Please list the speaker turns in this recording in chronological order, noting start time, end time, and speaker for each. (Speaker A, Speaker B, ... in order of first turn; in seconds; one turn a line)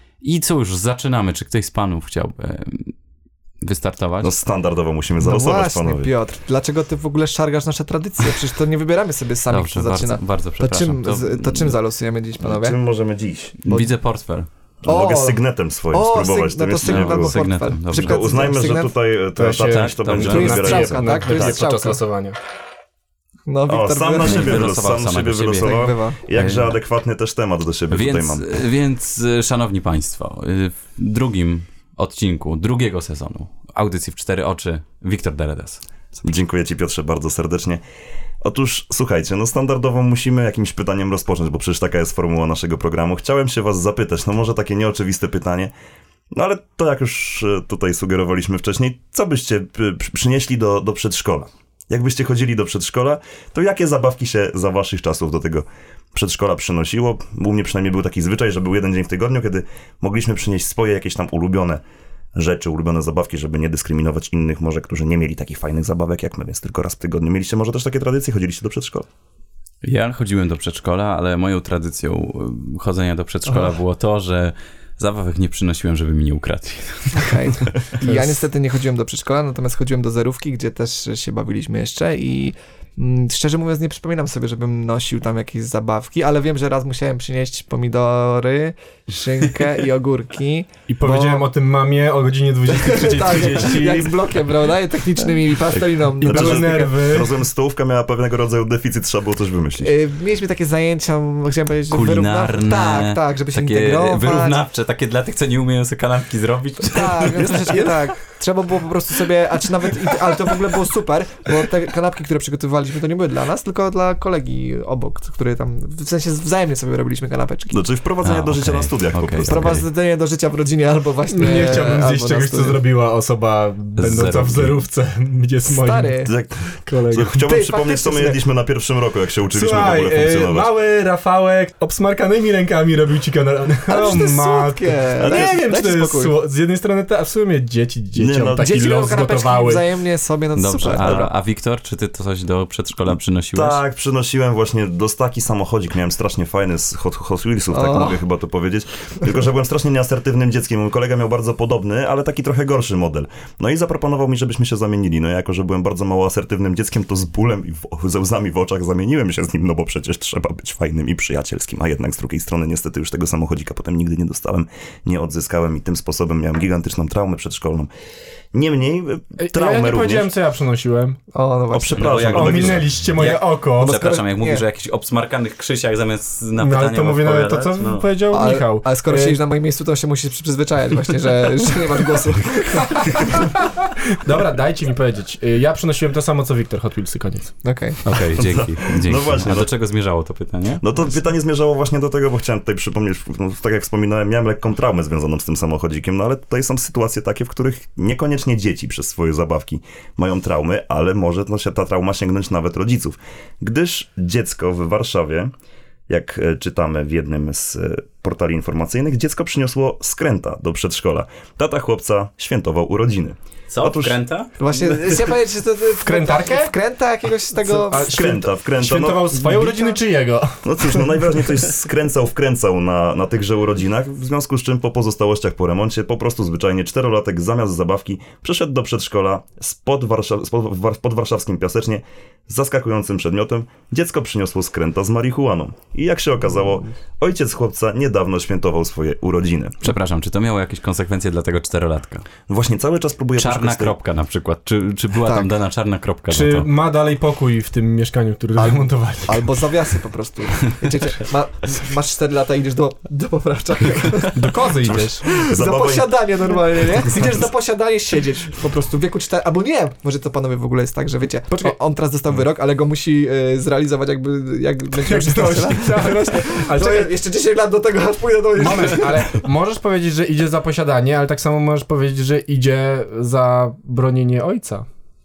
Speaker A: 0.2-2.9
Speaker A: 3.6-4.3
Speaker B: 4.2-6.1
Speaker C: 5.2-12.8
Speaker A: 9.5-11.8
Speaker B: 12.4-13.6
Speaker A: 13.6-14.5
Speaker B: 14.8-21.6
Speaker C: 14.8-15.4
Speaker C: 15.9-18.9
Speaker A: 16.9-18.3
Speaker D: 19.4-22.4
Speaker A: 19.5-20.7
Speaker C: 20.3-22.0
Speaker C: 23.5-24.7
Speaker B: 23.7-28.5
Speaker A: 24.2-25.8
Speaker C: 25.6-26.2
Speaker A: 26.3-26.7
Speaker A: 27.9-35.8
Speaker B: 36.2-37.8
Speaker B: 38.4-45.7
Speaker B: 46.3-61.8
Speaker B: 62.3-69.0
Speaker A: 69.8-77.7
Speaker C: 77.1-91.5
Speaker D: 78.0-78.3
Speaker D: 90.9-94.1
Speaker C: 92.7-96.9
Speaker B: 96.2-99.9
Speaker D: 96.2-97.3
Speaker C: 99.8-104.6
Speaker A: 101.9-107.9
Speaker C: 106.8-117.8
Speaker B: 117.7-119.8
Speaker A: 118.2-119.8
Speaker C: 119.4-122.8
Speaker D: 121.3-126.2
Speaker A: 124.0-124.8
Speaker C: 125.7-126.3
Speaker B: 126.2-130.7
Speaker D: 126.8-127.4
Speaker C: 127.4-128.4
Speaker D: 129.5-139.8
Speaker C: 133.9-136.3
Speaker B: 135.2-135.5
Speaker B: 138.2-138.8
Speaker C: 138.6-141.2
Speaker A: 140.5-143.8
Speaker B: 140.9-141.3
Speaker B: 143.5-167.9
Speaker C: 147.7-148.2
Speaker B: 168.5-170.3
Speaker D: 169.4-171.2
Speaker C: 171.3-172.3
Speaker B: 171.7-172.9
Speaker A: 172.0-178.1
Speaker D: 172.2-174.0
Speaker C: 173.8-174.6
Speaker D: 176.6-179.4
Speaker C: 178.3-183.6
Speaker D: 183.2-187.5
Speaker C: 187.6-188.0
Speaker A: 188.0-190.8
Speaker B: 188.3-189.7
Speaker B: 190.8-205.5
Speaker B: 206.1-214.2
Speaker A: 213.7-214.5
Speaker C: 214.6-218.2
Speaker D: 216.0-216.7
Speaker D: 217.7-221.3
Speaker B: 217.9-219.8
Speaker B: 220.6-239.8
Speaker A: 239.8-242.2
Speaker B: 242.5-243.9
Speaker A: 243.4-246.7
Speaker C: 245.2-245.5
Speaker D: 246.3-249.5
Speaker C: 248.6-254.5
Speaker D: 254.3-255.3
Speaker B: 254.8-256.2
Speaker C: 255.4-269.3
Speaker D: 261.5-261.8
Speaker D: 265.0-267.1
Speaker D: 268.6-274.9